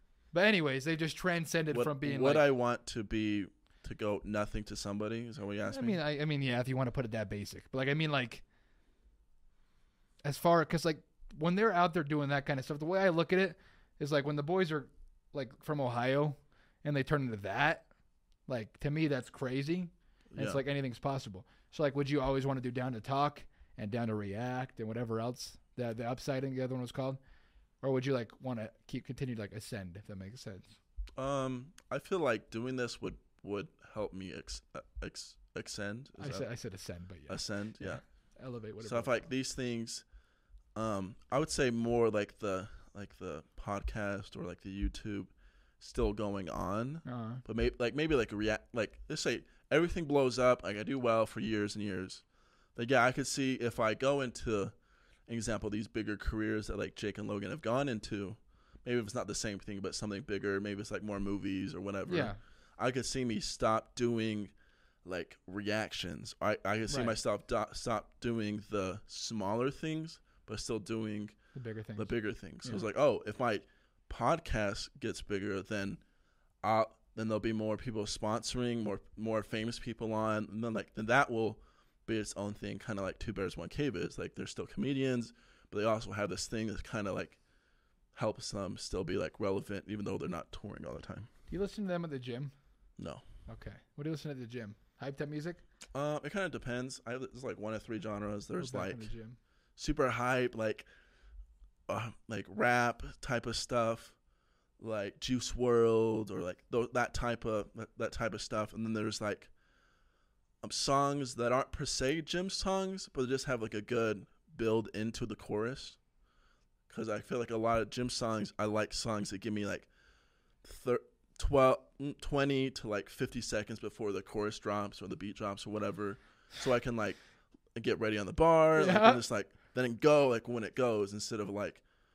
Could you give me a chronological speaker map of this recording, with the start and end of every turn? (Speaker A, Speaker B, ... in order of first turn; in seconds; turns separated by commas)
Speaker A: 0.3-2.4, Speaker B: 1.7-6.0, Speaker A: 5.7-8.4, Speaker A: 10.2-17.8, Speaker A: 18.5-27.2, Speaker B: 20.3-20.6, Speaker A: 27.8-30.6, Speaker B: 31.2-36.5, Speaker A: 36.2-37.3, Speaker B: 37.3-38.0, Speaker A: 38.4-39.0, Speaker B: 38.8-40.0, Speaker B: 40.7-52.2, Speaker A: 47.0-47.4, Speaker B: 52.8-54.7, Speaker B: 55.3-64.5, Speaker A: 62.1-62.4, Speaker B: 65.0-71.3, Speaker A: 71.5-72.1, Speaker B: 72.0-76.0, Speaker B: 76.6-87.4, Speaker B: 88.1-91.3, Speaker A: 91.5-92.5, Speaker B: 93.0-93.2, Speaker A: 93.5-95.6, Speaker B: 95.9-99.1, Speaker A: 98.6-99.3, Speaker B: 99.8-100.9, Speaker B: 101.9-104.1, Speaker B: 104.8-109.5, Speaker B: 110.6-116.0, Speaker B: 116.9-119.9, Speaker B: 120.6-127.2, Speaker B: 127.7-131.8, Speaker A: 128.8-129.2